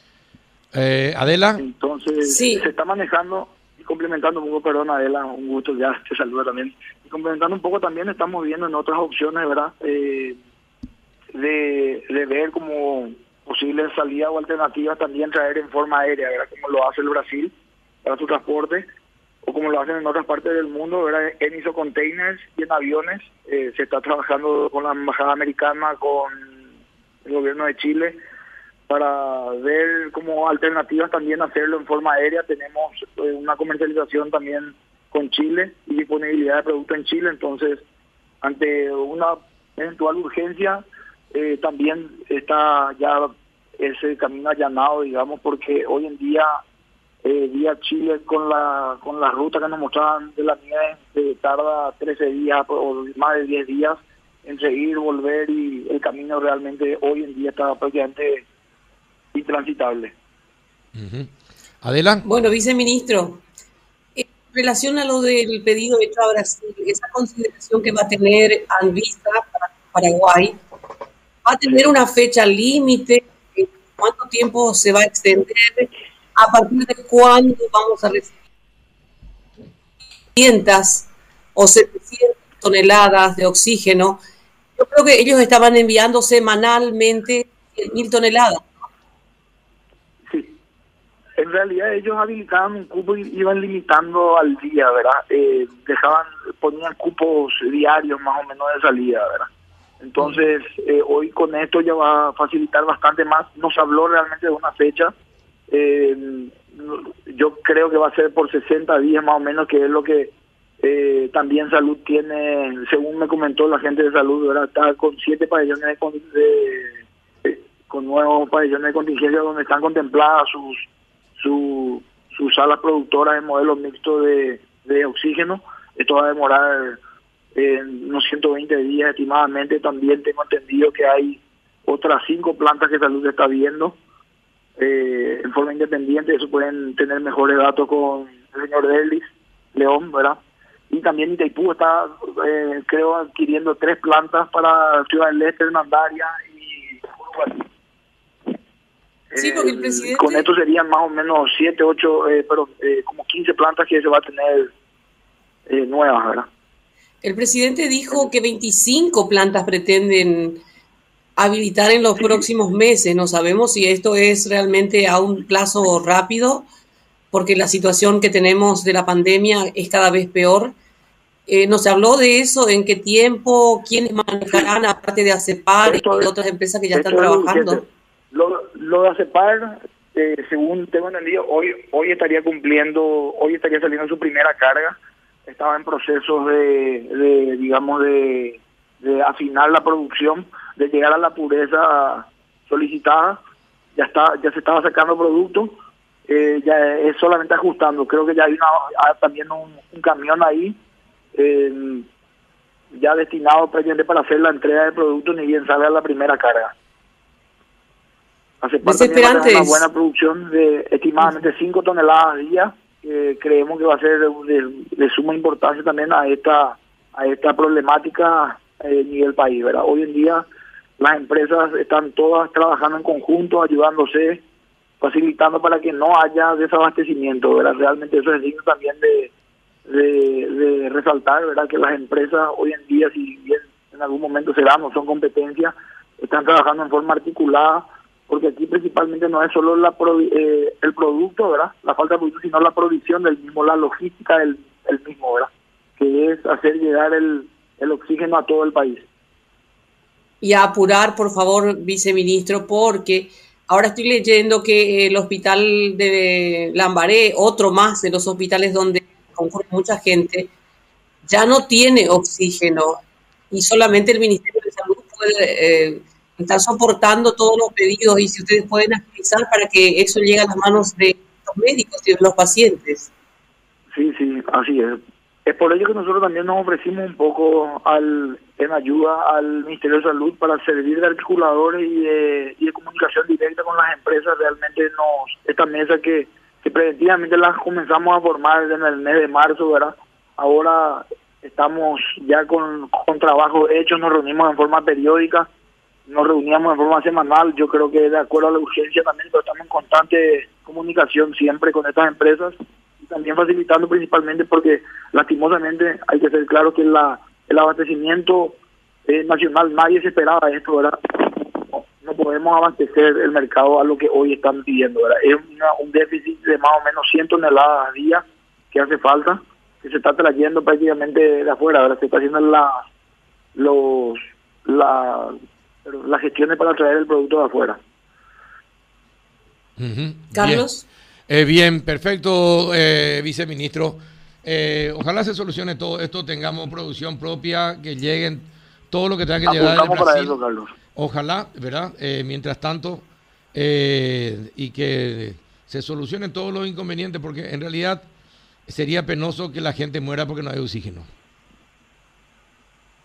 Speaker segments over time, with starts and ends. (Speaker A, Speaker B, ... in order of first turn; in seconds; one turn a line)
Speaker A: 0.7-1.6
Speaker B: 1.6-10.4
Speaker C: 2.2-2.6
Speaker B: 11.3-17.5
Speaker B: 18.0-18.9
Speaker B: 19.4-26.6
Speaker B: 27.2-28.2
Speaker B: 28.9-37.8
Speaker B: 38.4-46.5
Speaker B: 47.2-58.5
Speaker B: 59.3-60.1
Speaker A: 61.0-61.3
Speaker A: 61.8-62.2
Speaker C: 62.2-63.4
Speaker C: 64.2-70.6
Speaker C: 71.5-78.3
Speaker C: 80.4-84.2
Speaker C: 84.8-88.6
Speaker B: 90.3-90.6
Speaker B: 91.4-99.5
Speaker B: 100.0-105.1
Speaker B: 105.7-120.8
Speaker B: 121.4-127.0
Speaker B: 127.5-134.0
Speaker B: 134.8-147.7
Speaker B: 149.3-154.7
Speaker C: 149.4-150.5
Speaker B: 155.7-156.5
Speaker C: 157.2-160.6
Speaker C: 161.4-166.7
Speaker B: 162.2-162.5
Speaker C: 167.3-170.7
Speaker C: 171.5-177.8
Speaker B: 175.8-176.3
Speaker B: 176.9-193.4
Speaker B: 193.9-195.8
Speaker B: 196.3-200.8
Speaker B: 201.3-202.1
Speaker B: 202.9-206.7
Speaker B: 208.6-220.5
Speaker C: 208.8-209.8
Speaker B: 221.0-224.4
Speaker B: 225.0-229.3
Speaker B: 229.9-249.1
Speaker C: 250.4-260.5
Speaker C: 261.3-273.1
Speaker B: 273.9-295.5
Speaker B: 296.1-322.8
Speaker B: 323.6-327.8
Speaker A: 329.8-330.7
Speaker C: 330.3-330.8
Speaker A: 331.3-340.4
Speaker B: 339.5-340.7
Speaker A: 340.9-348.1
Speaker A: 348.7-351.1